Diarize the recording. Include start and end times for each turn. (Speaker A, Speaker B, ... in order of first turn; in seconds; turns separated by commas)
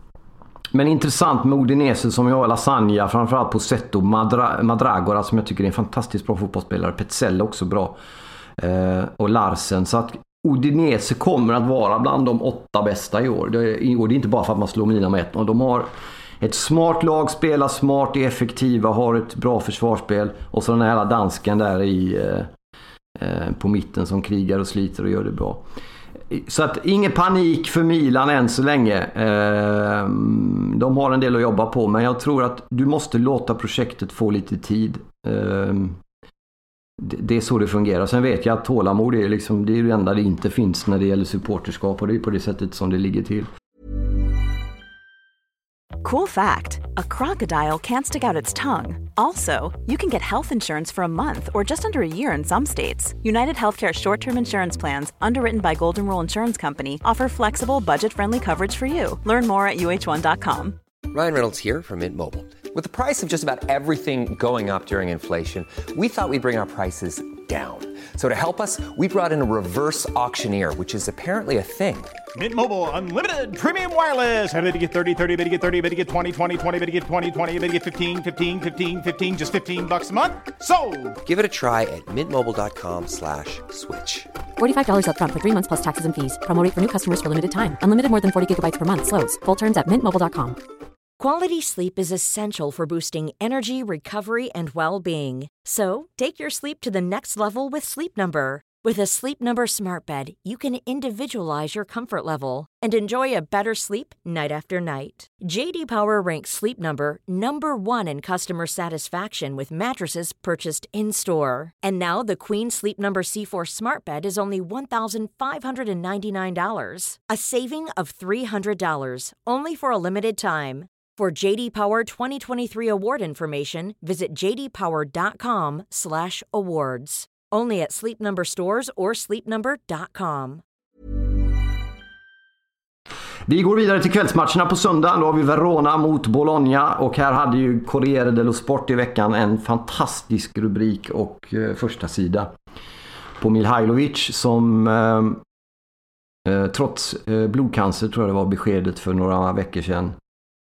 Speaker A: 0.7-8.0, Speaker A: 8.6-15.9, Speaker A: 16.4-22.5, Speaker A: 23.1-25.6, Speaker A: 26.3-36.0, Speaker A: 37.0-43.5, Speaker B: 46.0-60.8, Speaker C: 61.1-72.2, Speaker D: 72.3-81.2, Speaker C: 81.2-84.3, Speaker E: 84.6-90.6, Speaker F: 91.2-130.6, Speaker A: 133.5-142.5, Speaker A: 143.4-145.4, Speaker A: 146.4-150.2